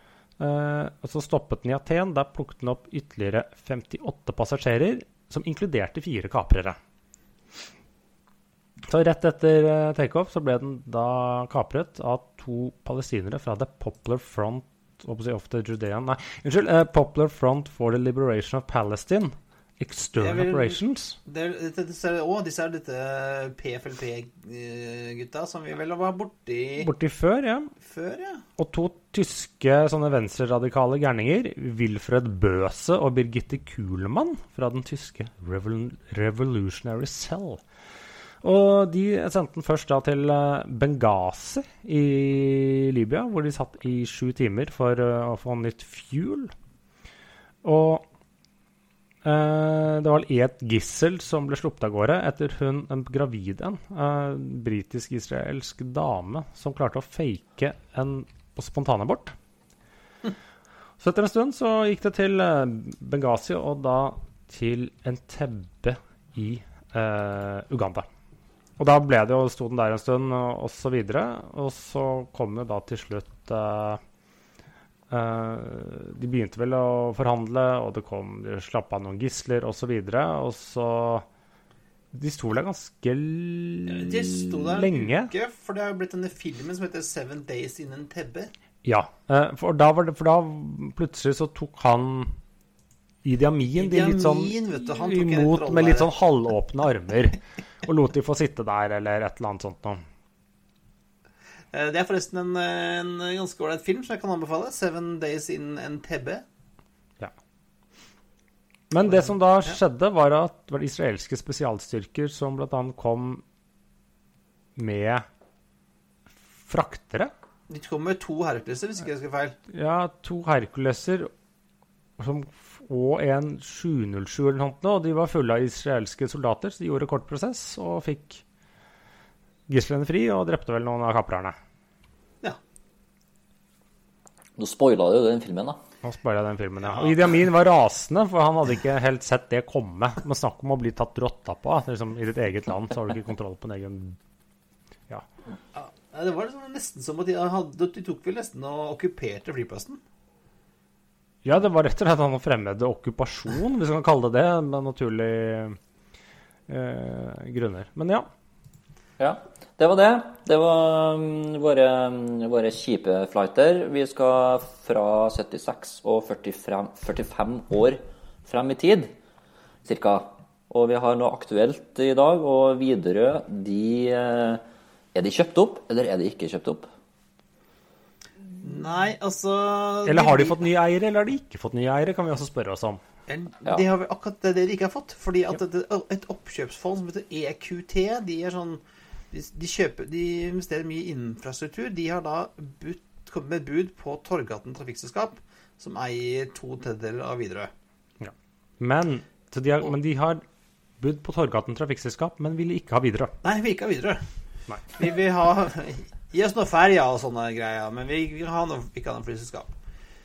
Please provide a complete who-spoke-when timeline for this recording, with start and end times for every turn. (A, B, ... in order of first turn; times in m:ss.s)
0:00.4-0:06.8 A
0:08.9-0:21.2 A
0:20.2-0:26.9 B
0:26.8-0:27.7 A
0:27.8-0:28.4 B
0:28.6-0:37.6 A
0:38.4-0:46.5 A
0:47.6-0:48.0 A
0:49.2-0:59.3 A
1:01.0-1:08.0 A
1:08.8-1:14.0 A
1:15.1-1:21.2 A
1:22.1-1:25.3 A
1:23.9-1:28.5 B
1:28.8-1:32.4 A
1:33.2-1:40.0 A
1:33.8-1:36.1 B
1:41.7-1:46.4 B
1:48.9-1:53.4 A
1:49.0-1:49.8 B
1:54.8-1:55.2 A
1:56.6-1:57.3 A
1:57.7-1:59.6 B
1:59.7-2:01.3 A
2:02.2-2:08.4 A
2:09.7-2:11.6 A
2:14.6-2:15.8 C
2:16.0-2:24.2 A
2:16.8-2:17.2 B
2:25.7-2:30.0 B
2:31.4-2:35.8 A
2:36.7-2:38.3 A
2:39.2-2:49.1 C
2:49.8-2:56.9 C
2:58.6-3:00.6 B
3:00.0-3:03.0 A
3:03.3-3:17.7 B
3:18.2-3:20.4 A
3:21.0-3:23.3 A
3:23.4-3:24.2 B
3:25.0-3:29.7 B